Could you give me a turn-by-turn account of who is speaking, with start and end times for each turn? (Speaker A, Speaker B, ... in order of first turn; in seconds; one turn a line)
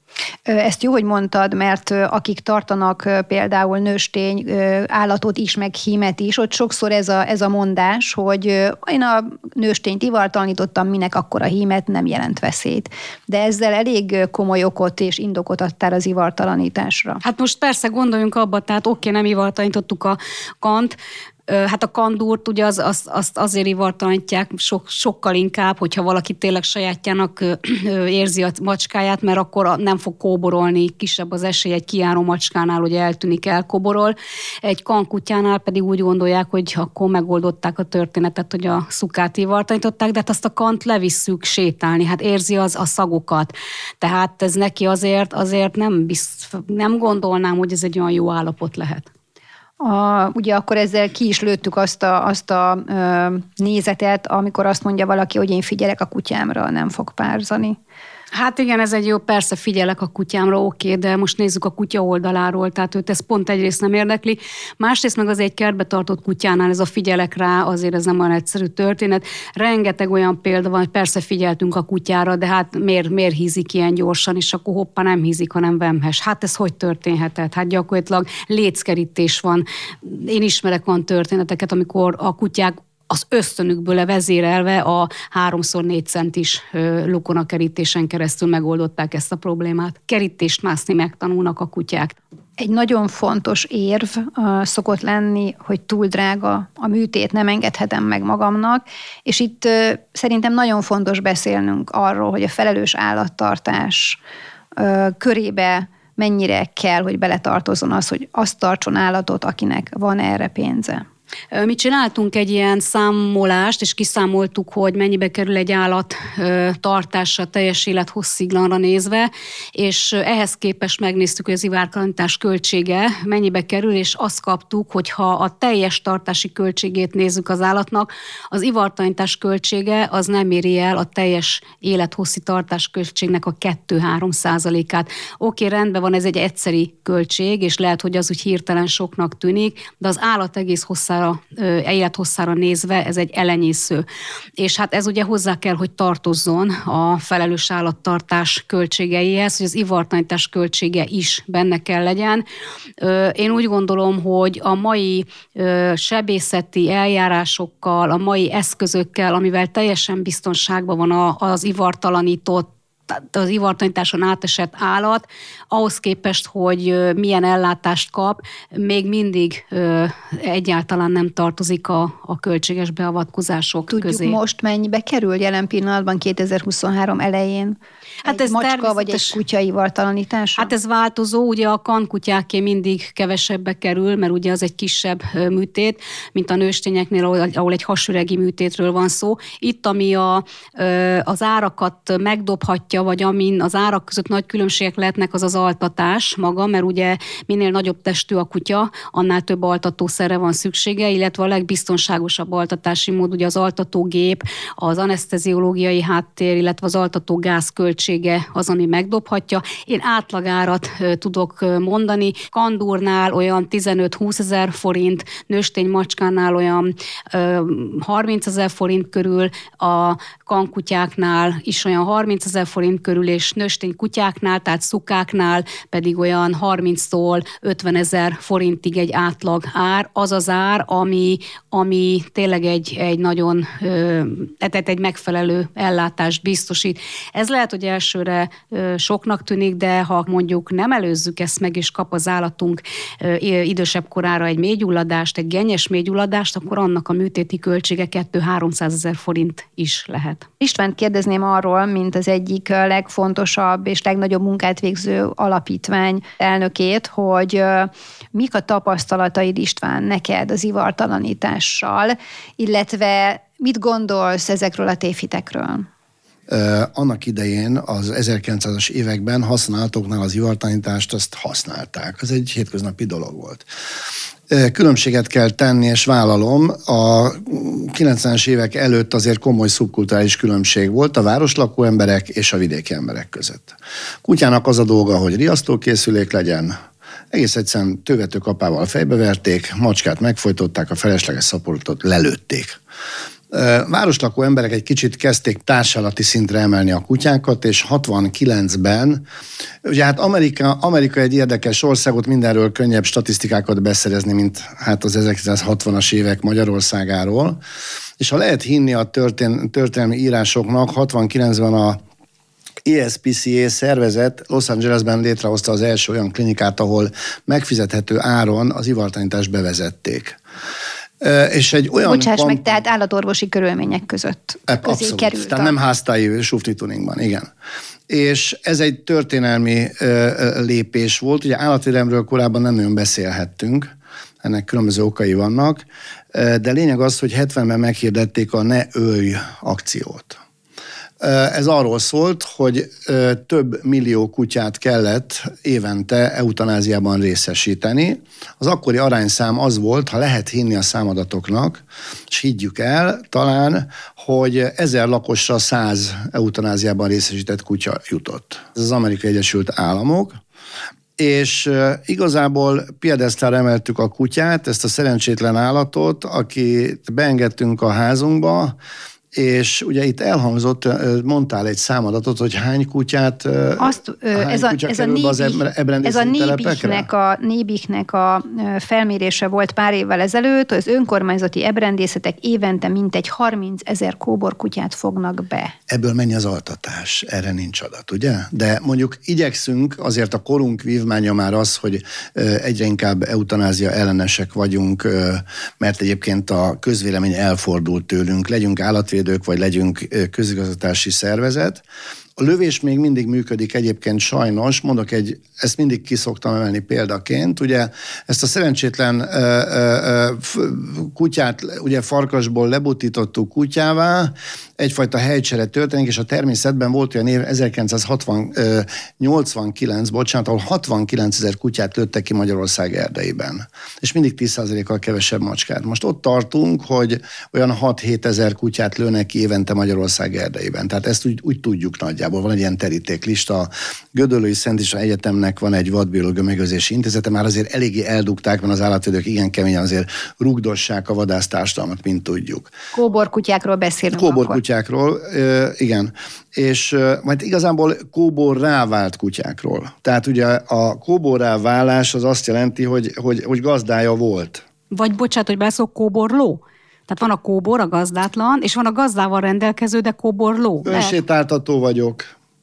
Speaker A: 0.5-17.2
Speaker B: 17.2-21.0
Speaker B: 21.5-49.1
Speaker A: 49.8-57.8
Speaker B: 58.3-92.2
Speaker A: 92.6-104.2
Speaker A: 104.8-111.0
Speaker B: 111.5-144.0
Speaker B: 144.6-152.4
Speaker B: 153.0-174.4
Speaker A: 173.9-180.7
Speaker B: 178.2-179.3
Speaker B: 180.6-250.5
Speaker A: 250.6-265.9
Speaker C: 266.5-273.7
Speaker C: 274.5-286.8
Speaker C: 287.3-292.8
Speaker C: 293.5-299.2
Speaker C: 299.8-307.6
Speaker C: 308.2-312.0
Speaker C: 312.8-320.4
Speaker C: 321.2-322.7
Speaker A: 322.0-325.8
Speaker C: 324.7-327.5
Speaker C: 328.1-333.9
Speaker C: 334.4-340.4
Speaker C: 341.2-360.4
Speaker C: 361.2-368.8
Speaker C: 369.3-377.1
Speaker A: 373.8-385.8
Speaker C: 385.9-401.8
Speaker C: 402.4-442.7
Speaker A: 442.9-444.6
Speaker C: 444.1-454.6
Speaker B: 454.9-461.2
Speaker C: 460.8-462.3